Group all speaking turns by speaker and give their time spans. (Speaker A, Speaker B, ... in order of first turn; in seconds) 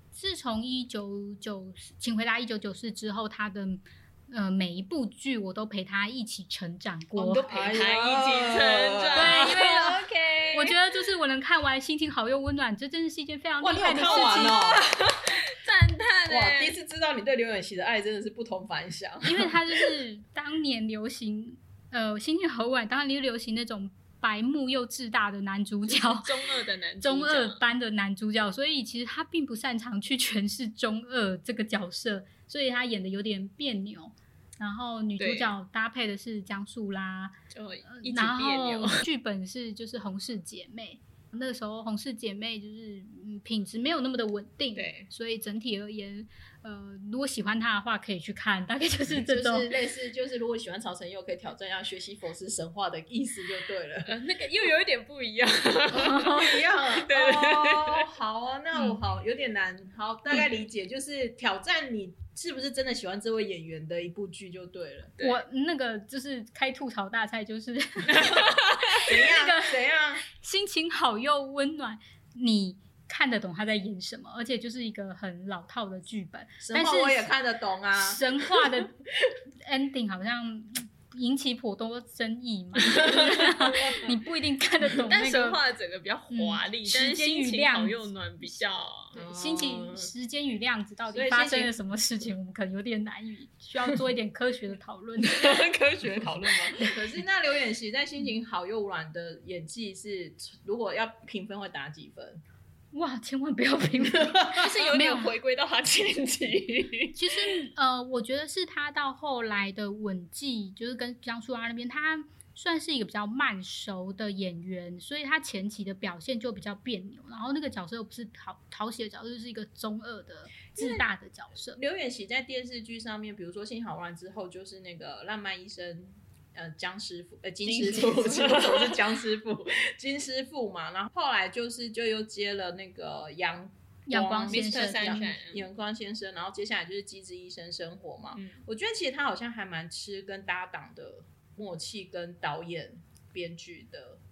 Speaker A: 0.1-7.5, 9.1-14.6, 19.2-37.4, 37.9-49.7, 65.2-77.3, 77.9-79.0, 79.6-85.6, 86.3-88.0, 89.1-95.7, 102.9-105.3, 107.1-121.8, 134.1-135.3
Speaker B: 7.2-10.8, 14.0-16.8, 25.9-27.6, 35.2-35.5, 37.5-39.1, 44.7-45.1, 54.0-58.0, 68.1-69.0, 82.8-84.1, 84.9-89.2, 95.2-96.9, 104.5-107.6, 127.6-129.0, 134.5-135.7, 138.3-138.6
Speaker C: 7.4-9.5, 13.6-14.9, 16.2-19.6, 49.1-54.1, 55.9-65.1, 68.9-70.3, 76.6-78.8, 89.1-90.1, 91.1-91.7, 96.8-102.4, 104.1-104.6, 120.8-121.0, 121.7-144.2